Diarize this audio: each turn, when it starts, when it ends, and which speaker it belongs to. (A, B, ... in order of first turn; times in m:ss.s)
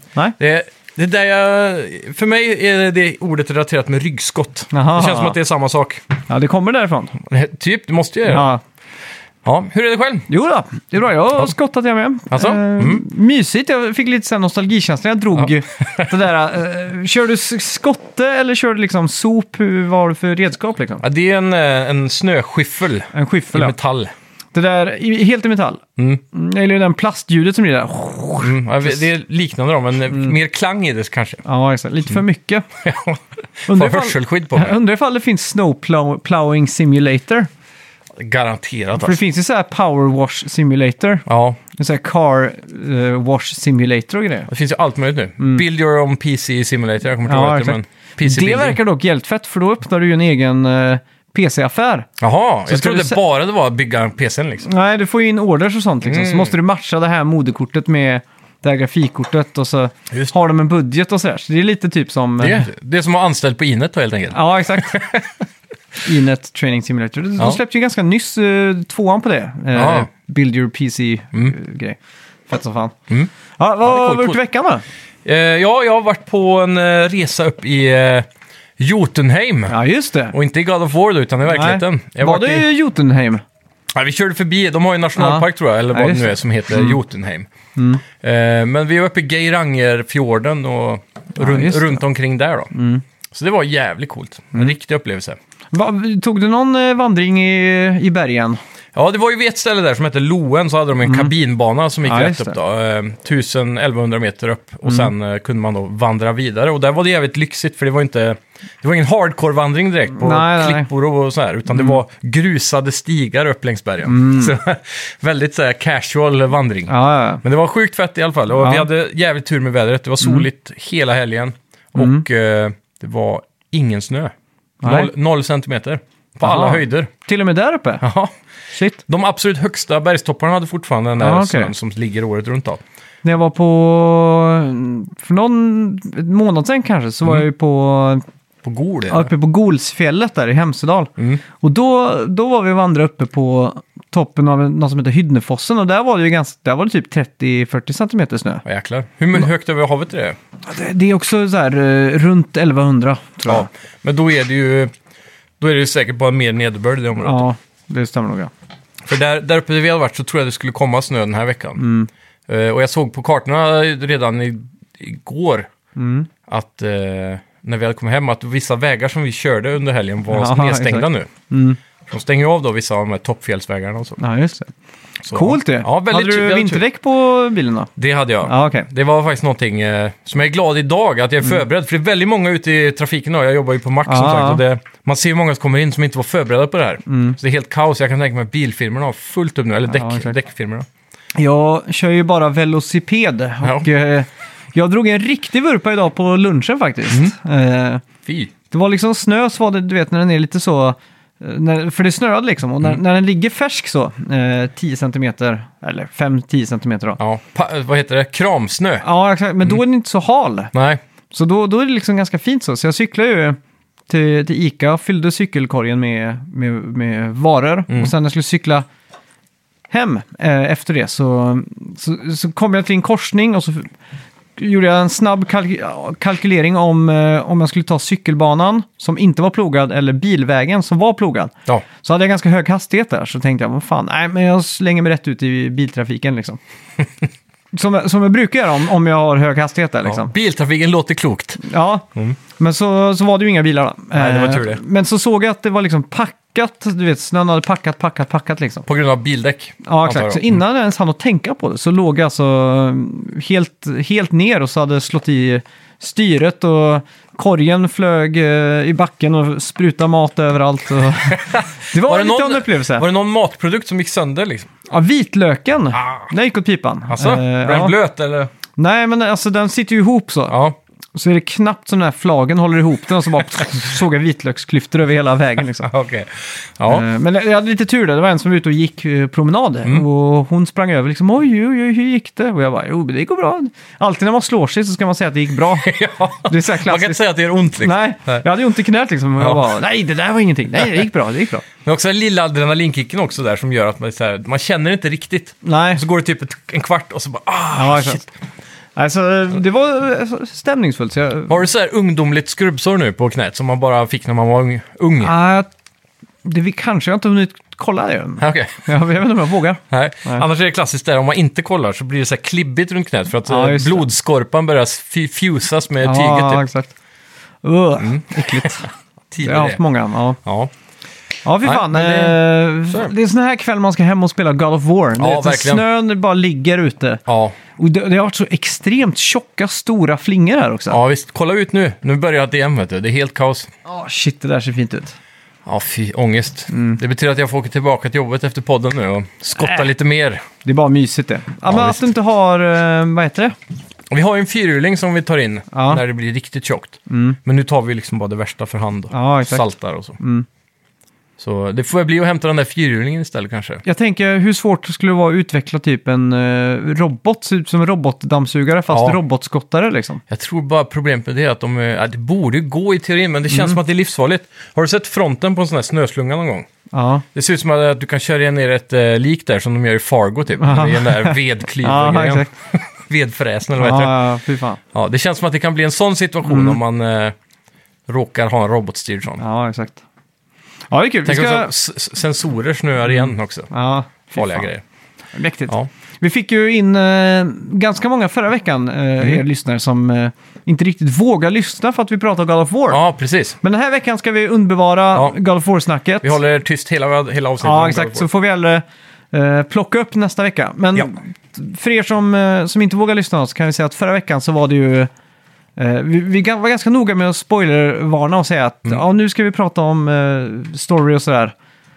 0:00.4-0:06.0 A
0:04.7-0:05.4 B
0:06.3-0:07.2 B
0:07.2-0:08.5 A
0:08.3-0:08.6 B
0:09.4-0:10.3 A
0:10.3-0:21.0 B
0:12.3-0:13.0 A
0:21.0-0:24.1 A
0:23.1-0:23.8 B
0:24.5-0:28.6 B
0:26.0-0:26.2 A
0:28.4-0:31.4 A
0:31.4-0:32.7 B
0:32.8-0:34.8 A
0:33.7-0:37.5 B
0:38.2-0:39.2 A
0:39.0-0:41.2 B
0:41.3-0:41.6 A
0:41.8-0:44.5 B
0:44.5-0:48.8 A
0:47.2-0:52.1 B
0:52.2-0:54.7 A
0:52.7-0:53.2 B
0:54.6-1:02.7 B
0:56.0-0:56.6 A
1:02.4-1:05.4 A
1:04.3-1:05.2 B
1:06.0-1:12.0 B
1:09.8-1:10.1 A
1:12.5-1:13.0 B
1:13.6-1:14.8 B
1:13.8-1:14.4 A
1:15.2-1:18.3 A
1:18.8-1:19.8 A
1:19.7-1:20.4 B
1:20.3-1:22.7 A
1:21.5-1:23.4 B
1:23.9-1:27.5 A
1:25.2-1:27.0 B
1:27.8-1:28.0 B
1:28.1-1:32.7 A
1:31.4-1:32.0 B
1:32.7-1:33.0 B
1:33.3-1:35.4 A
1:35.7-1:38.6 B
1:39.0-2:07.1 A
1:41.0-1:41.3 B
1:42.0-1:42.6 B
1:44.8-1:45.1 B
1:50.1-1:50.9 B
1:54.0-1:54.6 B
1:56.9-1:57.4 B
1:58.6-1:58.9 B
2:02.0-2:02.3 B
2:04.8-2:05.1 B
2:06.4-2:08.0 B
2:08.0-2:08.3 A
2:08.7-2:09.0 B
2:09.1-2:12.8 A
2:11.2-2:11.7 B
2:13.2-2:18.2 B
2:18.6-2:19.3 A
2:19.1-2:28.6 B
2:21.2-2:21.4 A
2:28.6-2:30.4 A
2:30.7-2:33.7 B
2:33.5-2:34.9 A
2:35.6-2:37.4 A
2:37.2-2:38.5 B
2:39.0-2:41.8 A
2:41.8-2:42.1 B
2:42.5-2:45.7 A
2:46.0-2:46.3 B
2:46.5-2:51.3 A
2:50.3-2:51.8 B
2:52.1-2:54.2 A
2:54.2-2:54.7 B
2:55.2-2:56.8 A
2:55.3-2:57.9 B
2:58.0-3:10.9 A
2:58.4-2:58.9 B
3:04.1-3:04.6 B
3:07.1-3:07.4 B
3:09.9-3:10.4 B
3:11.4-3:18.0 B
3:18.3-3:18.5 A
3:18.7-3:27.2 B
3:27.2-3:29.0 A
3:29.0-3:30.7 B
3:30.7-3:31.0 A
3:31.3-3:33.6 B
3:34.1-3:38.9 B
3:39.9-3:43.9 B
3:44.6-3:56.6 B
3:57.7-4:00.3 B
4:00.0-4:01.6 A
4:01.6-4:02.1 B
4:02.6-4:08.9 B
4:04.2-4:04.8 A
4:08.9-4:10.5 A
4:09.8-4:23.1 B
4:21.3-4:24.7 A
4:24.9-4:28.0 B
4:25.9-4:26.3 A
4:27.1-4:28.5 A
4:28.8-4:30.6 B
4:30.5-4:30.8 A
4:31.2-4:35.9 B
4:35.9-4:37.0 A
4:36.9-4:47.2 B
4:45.8-4:48.4 A
4:47.8-4:51.6 B
4:49.4-4:49.7 A
4:51.8-4:58.3 A
4:55.6-4:56.0 B
4:57.7-4:58.2 B
4:59.0-5:01.6 B
5:01.5-5:05.3 A
5:05.2-5:05.7 B
5:06.4-5:10.5 B
5:08.4-5:08.8 A
5:09.9-5:16.7 A
5:13.5-5:14.1 B
5:16.0-5:16.9 B
5:17.6-5:18.9 B
5:18.0-5:19.8 A
5:19.4-5:20.4 B
5:20.4-5:20.7 A
5:21.4-5:27.2 B
5:21.6-5:23.1 A
5:25.2-5:25.8 A
5:27.3-5:27.6 A
5:27.8-5:31.0 B
5:30.9-5:33.7 A
5:33.8-5:35.2 B
5:35.6-5:40.4 A
5:36.7-5:37.0 B
5:39.6-5:39.9 B
5:40.6-5:43.6 B
5:41.6-5:42.1 A
5:44.1-5:50.2 A
5:45.7-5:46.0 B
5:47.1-5:47.4 B
5:49.1-5:49.6 B
5:50.2-5:50.5 B
5:51.4-5:53.8 A
5:53.8-6:00.2 B
5:58.9-5:59.2 A
6:00.3-6:06.7 A
6:03.5-6:03.8 B
6:06.9-6:07.3 B
6:07.4-6:14.2 A
6:10.6-6:12.5 B
6:13.8-6:14.8 B
6:14.9-6:17.4 A
6:16.5-6:16.8 B
6:18.1-6:19.4 A
6:19.4-6:20.0 B
6:20.9-6:21.7 B
6:21.3-6:23.7 A
6:23.1-6:24.7 B
6:24.3-6:24.8 A
6:25.3-6:33.0 B
6:32.9-6:33.6 A
6:33.6-6:36.4 B
6:36.2-6:38.3 A
6:37.6-6:45.1 B
6:45.8-6:51.5 B